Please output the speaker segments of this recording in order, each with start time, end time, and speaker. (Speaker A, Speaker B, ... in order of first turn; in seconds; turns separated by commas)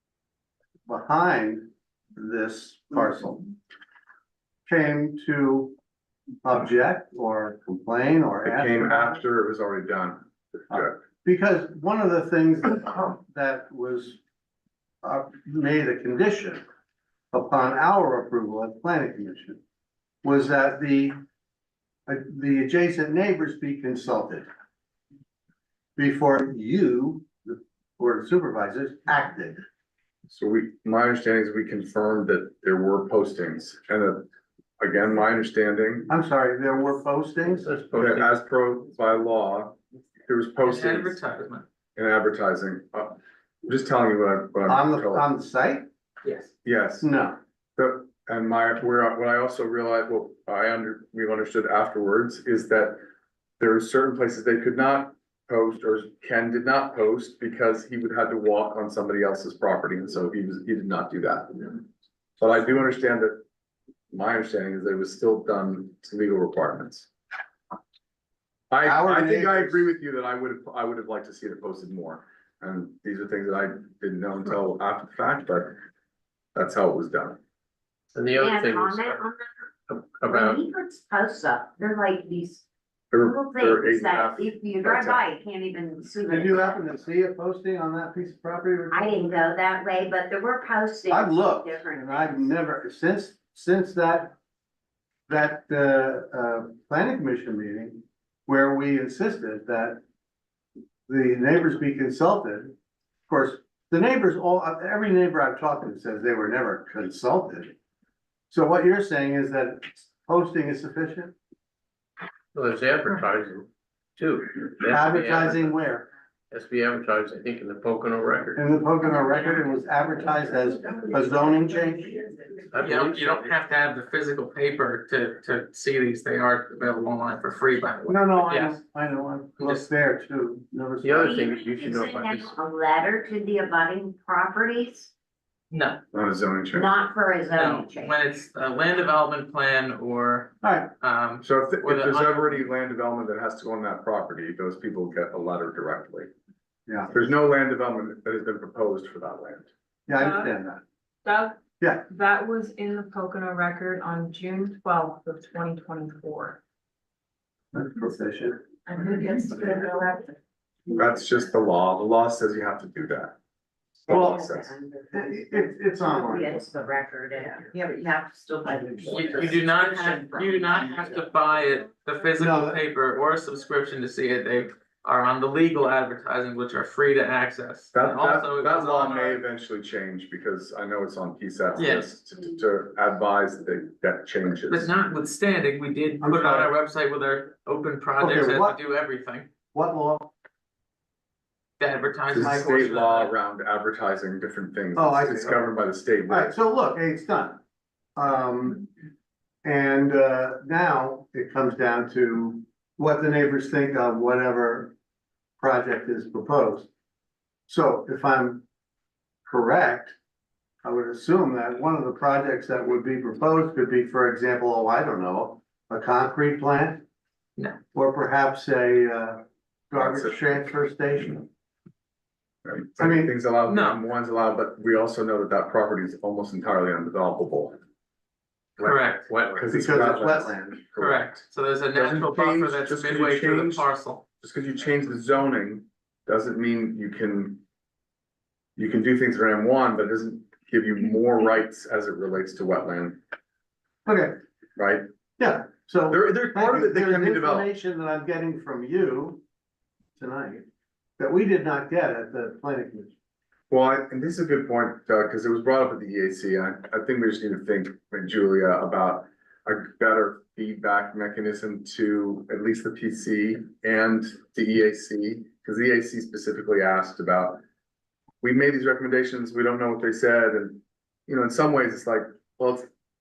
Speaker A: 0.9-3.5, Speaker A: 4.7-5.7, Speaker A: 6.4-9.2, Speaker B: 8.4-10.9, Speaker A: 10.7-14.2, Speaker A: 15.0-16.6, Speaker A: 17.3-19.6, Speaker A: 20.2-21.2, Speaker A: 22.1-24.5, Speaker A: 26.0-29.6, Speaker B: 30.3-34.3, Speaker B: 34.8-36.1, Speaker A: 36.1-37.8, Speaker C: 37.5-38.3, Speaker B: 38.0-41.2, Speaker D: 40.6-41.6, Speaker B: 41.9-45.2, Speaker A: 44.7-45.9, Speaker D: 46.2-46.5, Speaker B: 46.6-47.1, Speaker A: 47.0-47.4, Speaker B: 47.8-53.0, Speaker B: 53.6-61.8, Speaker B: 62.4-63.4, Speaker B: 64.1-67.1, Speaker B: 68.7-75.8, Speaker A: 68.8-69.9, Speaker B: 76.5-77.4, Speaker C: 78.1-79.2, Speaker E: 78.4-79.5, Speaker C: 79.9-80.7, Speaker E: 80.2-86.8, Speaker B: 83.1-85.2, Speaker A: 86.3-89.4, Speaker E: 88.9-92.4, Speaker A: 91.1-94.3, Speaker A: 95.3-100.0, Speaker A: 101.1-102.7, Speaker A: 103.3-107.7, Speaker A: 108.5-111.3, Speaker C: 112.5-115.8, Speaker A: 114.8-116.1, Speaker C: 116.5-118.6, Speaker A: 118.6-122.4, Speaker C: 122.7-123.5, Speaker D: 122.8-128.8, Speaker A: 128.1-131.4, Speaker D: 129.6-129.9, Speaker C: 131.0-132.5, Speaker E: 131.2-135.1, Speaker D: 135.7-136.0, Speaker B: 136.1-137.0, Speaker E: 136.7-138.2, Speaker D: 137.5-142.6, Speaker A: 140.6-140.9, Speaker B: 141.4-146.3, Speaker A: 146.9-147.1, Speaker B: 147.1-149.7, Speaker A: 150.1-150.8, Speaker F: 150.2-150.6, Speaker F: 151.2-156.6, Speaker A: 151.8-152.0, Speaker A: 157.7-158.6, Speaker F: 158.8-160.3, Speaker B: 160.9-163.3, Speaker E: 164.0-171.0, Speaker A: 164.1-164.4, Speaker B: 164.1-164.7, Speaker A: 165.1-166.6, Speaker A: 168.7-169.5, Speaker D: 169.1-179.4, Speaker A: 172.4-172.8, Speaker B: 177.9-184.9, Speaker D: 181.8-182.1, Speaker D: 184.7-189.5, Speaker A: 186.2-186.7, Speaker A: 188.2-188.8, Speaker A: 189.7-190.3, Speaker D: 191.8-193.3, Speaker B: 192.3-196.5, Speaker A: 194.9-195.7, Speaker A: 196.3-197.6, Speaker A: 198.2-198.8, Speaker A: 199.6-204.9, Speaker A: 205.6-206.9, Speaker A: 207.7-208.6, Speaker A: 209.5-210.1, Speaker A: 210.8-217.0, Speaker A: 217.9-221.5, Speaker B: 220.0-220.3, Speaker B: 222.6-227.8, Speaker A: 223.0-223.3, Speaker D: 223.7-224.0, Speaker B: 228.8-231.4, Speaker D: 228.8-229.3, Speaker C: 229.3-229.6, Speaker A: 229.7-230.8, Speaker D: 231.0-234.2, Speaker B: 231.9-233.9, Speaker B: 234.4-237.6, Speaker B: 238.8-243.2, Speaker A: 244.0-244.4, Speaker B: 244.8-245.1, Speaker A: 245.4-249.4, Speaker B: 246.1-247.7, Speaker A: 250.2-250.6, Speaker A: 251.2-253.1, Speaker B: 253.7-267.6, Speaker B: 268.4-272.9